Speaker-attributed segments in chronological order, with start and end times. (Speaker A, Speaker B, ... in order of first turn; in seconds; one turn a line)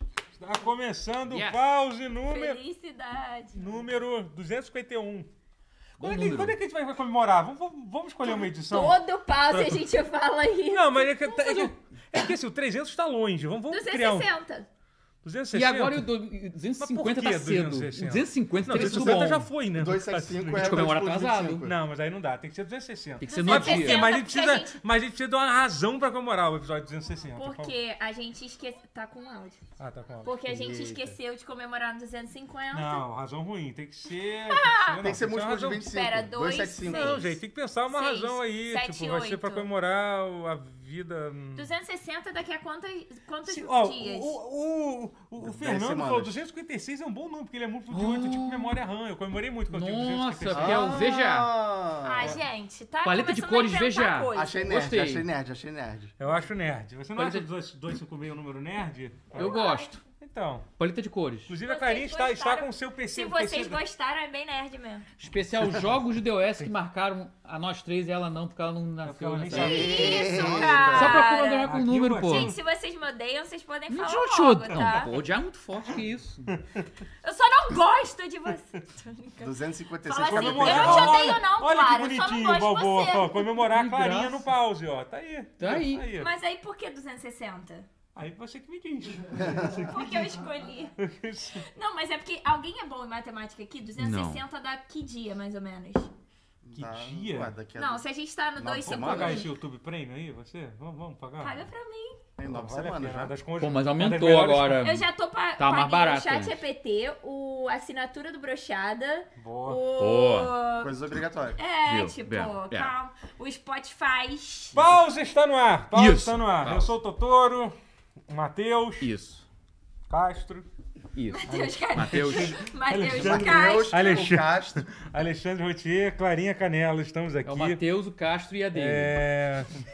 Speaker A: 0.4-2.6
Speaker B: 1.3-1.6
Speaker C: 2.3-3.6
Speaker A: 3.5-5.3
Speaker B: 6.0-6.5
Speaker A: 6.0-9.8
Speaker C: 8.2-11.2
Speaker A: 10.7-14.3
Speaker B: 11.3-11.7
Speaker C: 13.7-14.7
Speaker A: 15.2-16.1
Speaker B: 15.5-19.5
Speaker A: 16.8-21.0
Speaker D: 18.7-21.7
Speaker B: 20.5-21.6
Speaker A: 21.6-27.7
Speaker B: 23.2-24.1
Speaker C: 23.2-24.8
Speaker C: 27.3-29.6
Speaker A: 29.8-30.4
Speaker C: 30.2-33.0
Speaker D: 30.5-31.1
Speaker A: 32.7-35.9
Speaker C: 34.5-35.0
Speaker D: 35.0-37.3
Speaker C: 35.9-37.3
Speaker A: 36.8-41.7
Speaker C: 37.9-39.7
Speaker C: 41.5-44.3
Speaker A: 43.5-51.0
Speaker D: 45.4-46.4
Speaker B: 47.9-48.8
Speaker B: 49.7-51.5
Speaker D: 50.5-52.4
Speaker C: 52.0-54.7
Speaker B: 53.0-55.3
Speaker D: 54.3-56.1
Speaker A: 56.2-59.6
Speaker B: 57.1-57.5
Speaker B: 59.3-60.0
Speaker C: 59.4-59.9
Speaker A: 60.2-60.7
Speaker B: 60.8-61.5
Speaker A: 61.5-63.8
Speaker C: 61.6-65.0
Speaker B: 65.2-70.1
Speaker A: 69.0-72.6
Speaker D: 69.5-71.1
Speaker C: 69.6-71.7
Speaker B: 70.9-72.5
Speaker C: 72.2-75.1
Speaker B: 73.9-76.5
Speaker C: 77.2-83.5
Speaker D: 79.4-81.3
Speaker A: 80.3-86.3
Speaker B: 83.7-84.4
Speaker B: 85.6-86.0
Speaker C: 86.2-87.9
Speaker A: 88.2-90.4
Speaker D: 89.4-89.7
Speaker C: 89.8-90.9
Speaker A: 91.0-91.6
Speaker C: 91.7-96.1
Speaker B: 94.0-94.4
Speaker D: 96.6-98.0
Speaker A: 96.8-97.5
Speaker C: 97.8-99.5
Speaker D: 98.6-99.5
Speaker A: 98.8-101.7
Speaker C: 101.4-102.2
Speaker D: 102.4-103.3
Speaker A: 102.4-104.9
Speaker B: 103.6-105.0
Speaker C: 104.8-111.0
Speaker B: 105.6-106.6
Speaker A: 109.4-109.8
Speaker B: 110.0-110.5
Speaker D: 110.8-111.6
Speaker C: 111.6-114.8
Speaker B: 111.8-112.9
Speaker A: 114.7-117.7
Speaker B: 115.9-116.9
Speaker A: 118.3-119.1
Speaker B: 119.0-119.4
Speaker A: 120.1-120.7
Speaker B: 121.1-122.6
Speaker C: 121.3-124.2
Speaker A: 121.5-127.8
Speaker D: 123.1-124.8
Speaker B: 127.5-129.2
Speaker A: 128.7-129.7